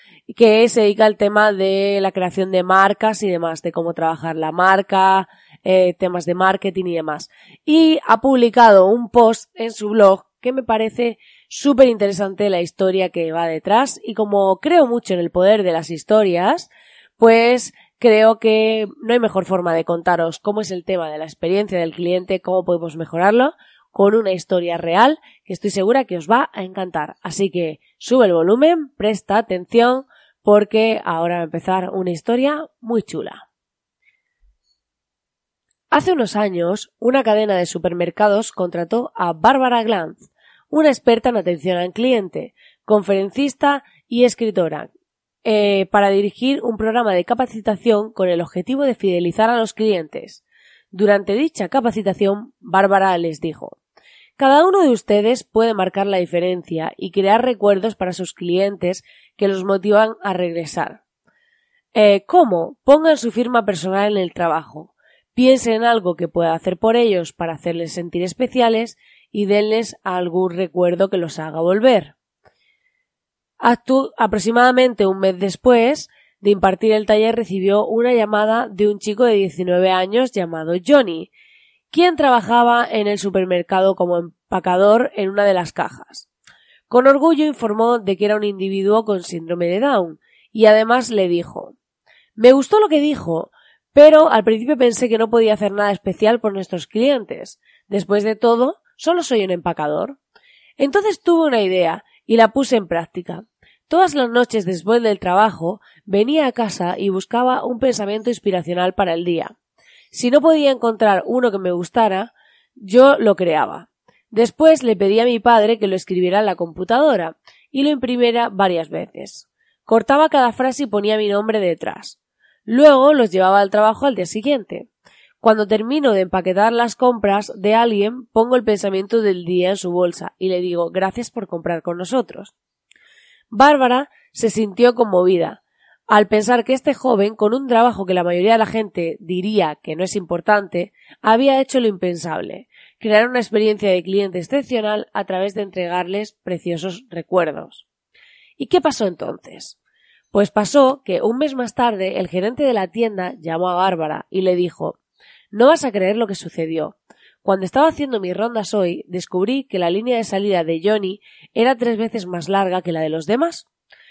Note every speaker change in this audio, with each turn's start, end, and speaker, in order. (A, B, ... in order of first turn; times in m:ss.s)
0:00.3-0:33.4 A
0:35.9-0:44.9 A
0:45.4-0:53.8 A
0:54.4-1:01.0 A
1:01.9-1:12.1 A
1:13.6-1:21.3 A
1:21.9-1:26.3 A
1:26.9-1:31.7 A
1:32.4-1:40.2 A
1:40.8-1:49.5 A
1:50.1-2:04.9 A
2:05.4-2:12.5 A
2:13.5-2:27.8 A
2:28.6-2:29.8 A
2:30.3-2:35.0 A
2:35.5-2:43.7 A